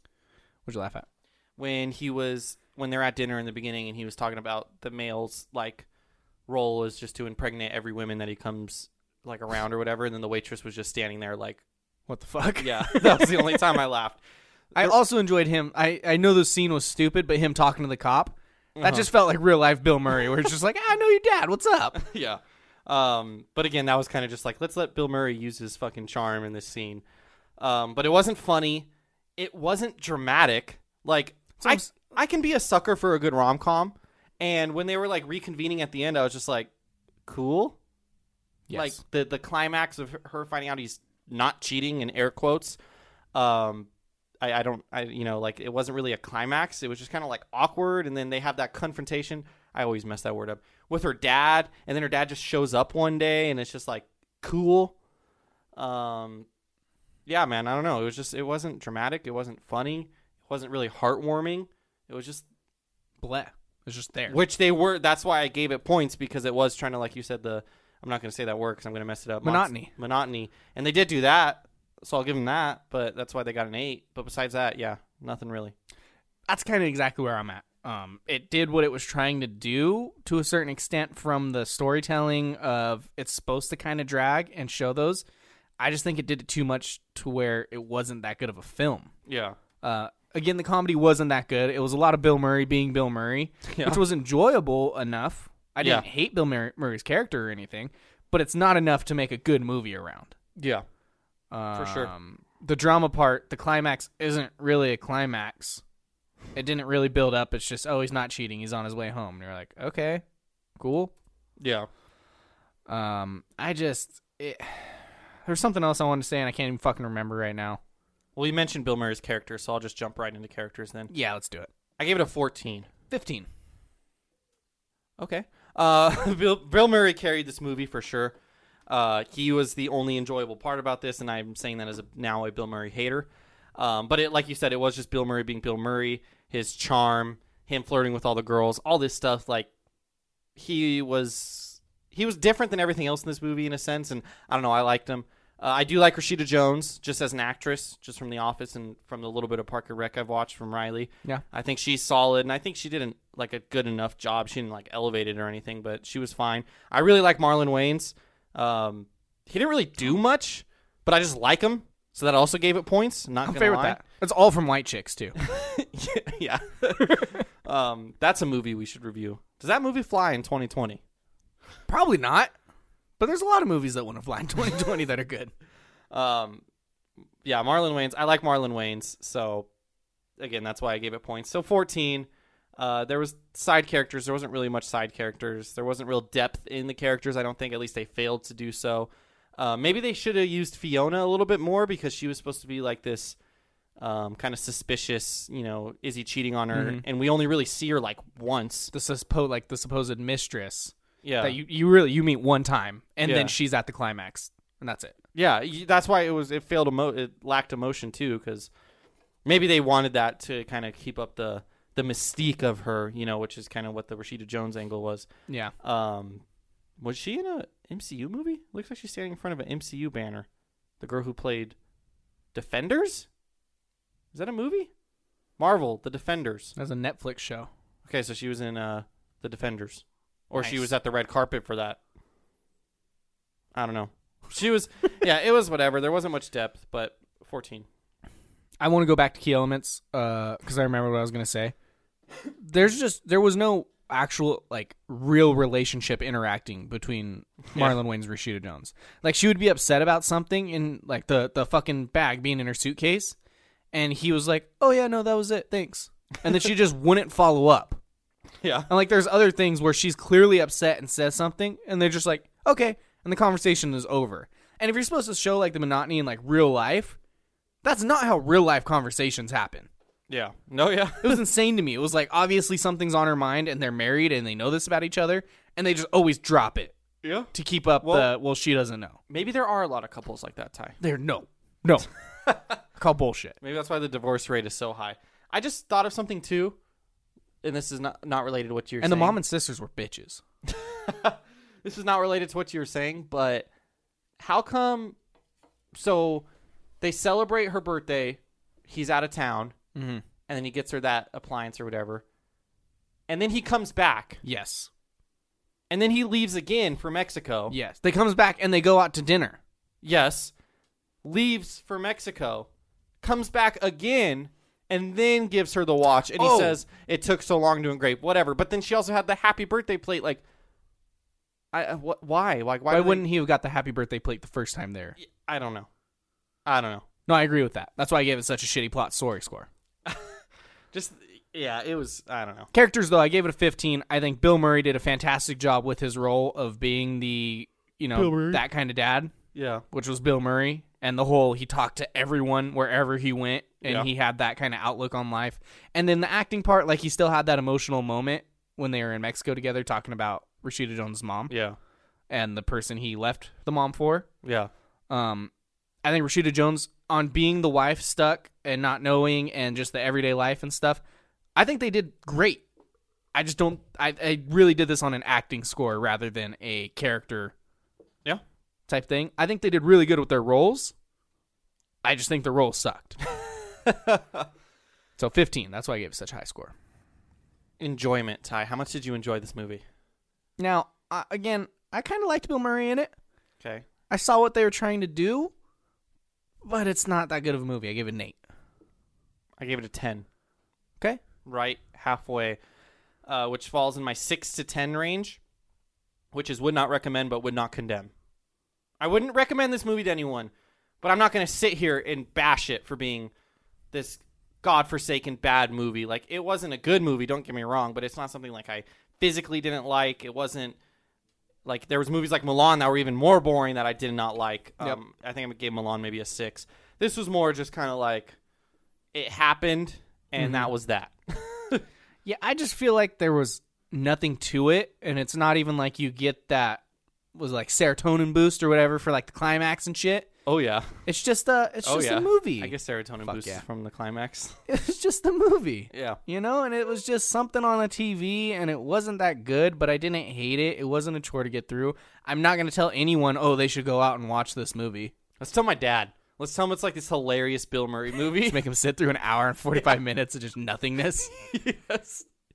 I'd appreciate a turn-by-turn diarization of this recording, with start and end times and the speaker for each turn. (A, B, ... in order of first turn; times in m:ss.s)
0:00.6-0:01.0 A
0:01.6-0:05.8 B
0:06.5-0:11.6 B
0:12.1-0:13.6 A
0:12.6-0:14.2 B
0:14.7-0:22.0 A
0:18.8-0:19.1 B
0:22.0-0:27.0 B
0:27.6-0:36.7 B
0:31.6-0:31.9 A
0:37.3-0:37.8 B
0:38.7-0:39.0 A
0:38.7-0:42.8 B
0:43.3-0:43.9 B
0:44.4-0:54.9 B
0:55.8-0:56.5 B
0:57.3-1:02.4 B
1:03.2-1:04.4 A
1:04.3-1:15.7 B
1:09.4-1:09.9 A
1:16.5-1:25.2 A
1:25.8-1:29.1 A
1:29.3-1:29.6 B
1:29.8-1:40.3 A
1:33.7-1:34.0 B
1:35.8-1:36.0 B
1:40.6-1:40.8 B
1:41.5-1:45.8 A
1:41.7-1:42.1 B
1:46.5-1:50.2 A
1:50.8-1:51.1 A
1:51.6-1:51.9 B
1:52.9-1:57.8 A
1:58.4-2:01.1 B
2:01.1-2:01.7 A
2:02.0-2:02.9 B
2:03.1-2:03.5 A
2:05.2-2:08.3 B
2:08.9-2:19.7 B
2:20.6-2:44.0 B
2:43.4-2:45.4 A
2:45.4-2:51.0 B
2:47.0-2:47.4 A
2:51.9-2:52.5 A
2:53.2-2:55.5 A
2:56.1-2:56.6 B
2:57.4-2:59.7 B
3:00.4-3:13.4 B
3:14.0-3:18.9 B
3:16.7-3:17.0 A
3:18.9-3:25.1 A
3:21.2-3:21.6 B
3:23.2-3:23.5 B
3:25.3-3:28.7 B
3:29.4-3:35.3 B
3:35.5-3:35.7 A
3:35.8-3:36.4 B
3:37.0-3:40.4 B
3:41.0-3:41.7 B
3:42.5-3:43.3 B
3:44.3-3:44.9 B
3:45.6-3:46.7 B
3:46.8-3:47.7 A
3:48.0-3:52.0 B
3:50.5-3:50.9 A
3:53.7-3:57.8 B
3:58.8-4:01.7 A
4:02.6-4:13.4 A
4:13.9-4:18.0 A
4:18.6-4:18.9 B
4:18.9-4:27.2 A
4:27.8-4:29.9 A
4:30.3-4:31.4 B
4:31.2-4:36.9 A
4:37.2-4:38.3 B
4:37.5-4:39.2 A
4:39.3-4:41.0 B
4:41.0-4:42.1 A
4:43.0-4:43.6 A
4:43.6-4:46.8 B
4:47.6-4:49.4 B
4:49.0-4:50.4 A
4:50.7-4:53.7 B
4:54.4-4:55.2 B
4:55.9-4:56.4 B
4:57.0-4:59.8 B
4:59.9-5:00.2 A
5:00.5-5:02.2 B
5:03.3-5:04.4 B
5:04.4-5:04.9 A
5:05.9-5:07.7 B
5:07.7-5:09.6 A
5:10.0-5:10.5 B
5:11.2-5:12.7 B
5:13.2-5:20.4 B
5:16.4-5:16.8 A
5:21.7-5:23.3 B
5:22.9-5:25.2 A
5:25.2-5:25.9 B
5:26.6-5:27.0 B
5:27.3-5:29.7 A
5:30.0-5:30.4 B
5:30.9-5:32.7 B
5:32.7-5:39.3 A
5:38.1-5:38.6 B
5:39.5-5:39.8 B
5:39.9-5:51.5 A
5:43.8-5:44.1 B
5:51.5-5:51.8 B
5:52.3-5:54.3 A
5:54.4-5:54.7 B
5:55.1-5:55.5 A
5:56.0-6:01.0 A
6:01.5-6:02.6 A
6:03.3-6:07.5 A
6:08.9-6:10.9 A
6:12.0-6:13.2 A
6:13.8-6:14.4 B
6:15.2-6:16.7 A
6:17.8-6:19.8 B
6:20.6-6:23.1 A
6:24.1-6:25.5 A
6:26.6-6:28.4 A
6:29.6-6:30.2 B
6:31.4-6:32.6 B
6:33.2-6:35.4 B
6:36.3-6:38.1 B
6:39.0-6:40.5 B
6:41.0-6:43.3 B
6:43.9-6:50.8 B
6:51.6-6:58.4 B
6:59.1-7:01.8 B
7:00.4-7:00.7 A
7:02.2-7:06.8 A
7:07.3-7:10.3 A
7:10.4-7:11.0 B
7:11.0-7:12.7 A
7:11.8-7:14.6 B
7:13.2-7:13.6 A
7:14.7-7:25.1 A
7:15.9-7:16.2 B
7:25.4-7:28.6 B
7:28.4-7:31.3 A
7:31.4-7:32.2 B